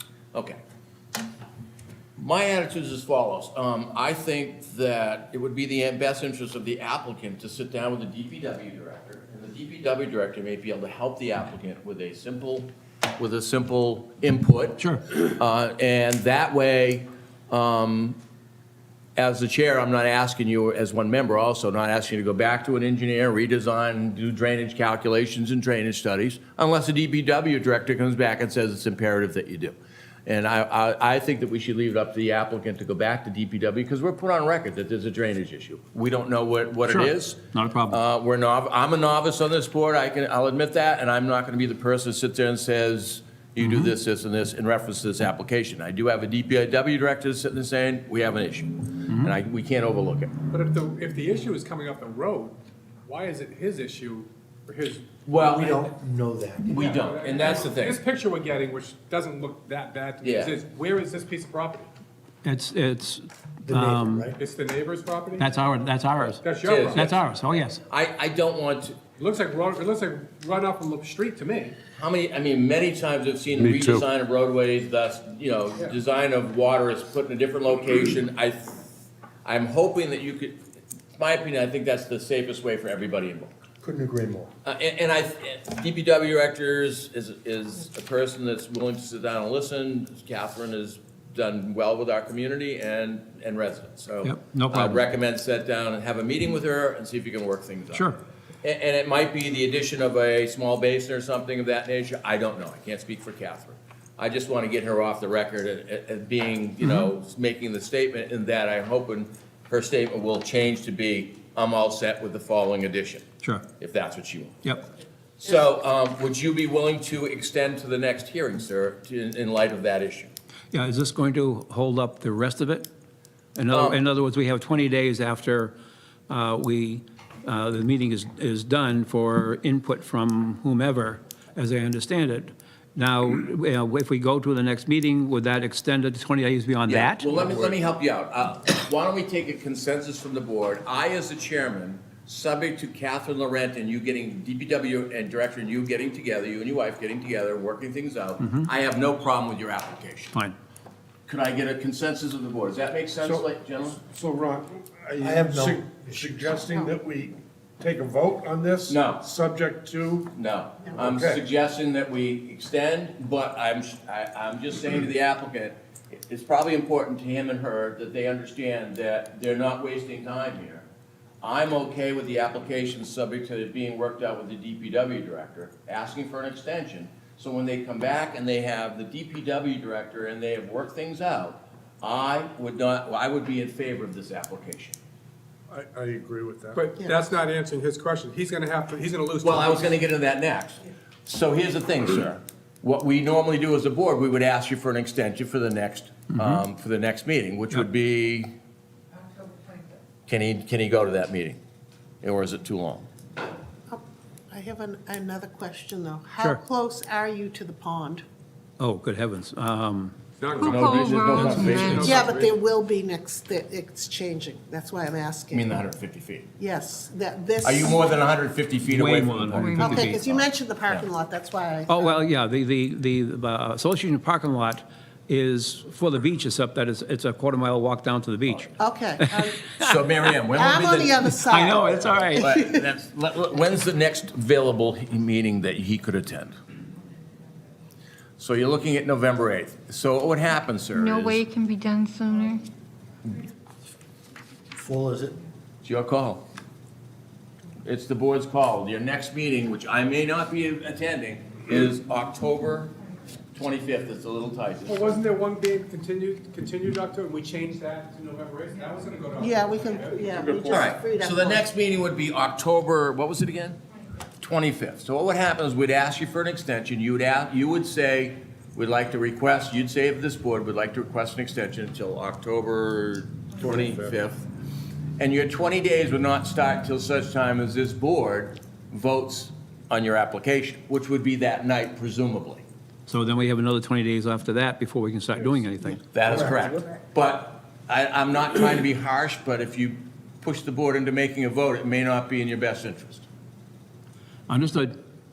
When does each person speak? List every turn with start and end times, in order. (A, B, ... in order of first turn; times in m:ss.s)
0:00.3-0:00.6 A
0:02.2-0:18.2 A
0:14.8-0:15.0 B
0:19.2-0:50.3 A
0:36.9-0:38.0 B
0:43.6-0:43.9 B
0:50.5-0:55.8 C
0:55.3-0:55.9 A
0:55.3-0:56.8 D
0:56.7-0:58.0 A
0:56.7-1:01.9 C
1:00.2-1:00.5 A
1:02.4-1:04.4 B
1:03.7-1:04.4 D
1:04.4-1:05.5 C
1:05.4-1:07.8 B
1:06.4-1:07.2 C
1:06.6-1:07.2 A
1:07.9-1:09.0 A
1:09.2-1:11.8 C
1:12.0-1:18.8 A
1:19.4-1:20.6 A
1:21.2-1:23.5 A
1:23.8-1:24.5 D
1:24.6-1:38.1 A
1:34.2-1:35.0 B
1:38.6-1:53.3 A
1:46.8-1:47.1 B
1:53.8-1:54.6 A
1:55.4-2:00.3 A
2:00.7-2:02.9 B
2:03.6-2:05.8 B
2:03.7-2:04.0 A
2:06.3-2:17.4 B
2:16.9-2:30.4 A
2:28.4-2:28.7 B
2:31.3-2:34.0 A
2:33.2-2:33.5 E
2:34.0-2:40.3 E
2:35.2-2:36.8 D
2:38.9-2:39.2 A
2:40.3-2:50.9 A
2:41.0-2:41.4 E
2:51.4-3:05.0 A
3:05.7-3:06.8 E
3:06.7-3:10.0 C
3:09.4-3:18.5 A
3:16.4-3:16.6 B
3:20.3-3:21.6 A
3:22.2-3:23.1 A
3:23.9-3:28.2 F
3:28.8-3:30.2 B
3:30.4-3:32.6 C
3:30.6-3:32.1 G
3:30.6-3:32.3 A
3:31.9-3:35.8 F
3:35.5-3:36.5 A
3:36.6-3:38.1 F
3:37.6-3:41.1 A
3:38.8-3:40.3 B
3:39.6-3:40.0 G
3:39.8-3:42.2 F
3:41.9-3:50.0 B
3:48.8-3:49.6 F
3:49.8-3:51.4 A
3:50.5-3:52.9 F
3:51.4-3:52.5 B
3:52.4-3:56.6 A
3:58.4-4:01.4 A
4:00.9-4:02.7 G
4:04.8-4:05.4 D
4:05.8-4:06.4 A
4:07.8-4:12.9 A
4:13.5-4:15.2 A
4:14.9-4:20.9 C
4:19.4-4:21.7 F
4:20.7-4:23.8 A
4:24.4-4:34.5 A
4:33.6-4:34.2 E
4:35.2-4:42.6 A
4:43.1-4:46.1 B
4:46.1-4:53.3 A
4:54.5-4:55.0 B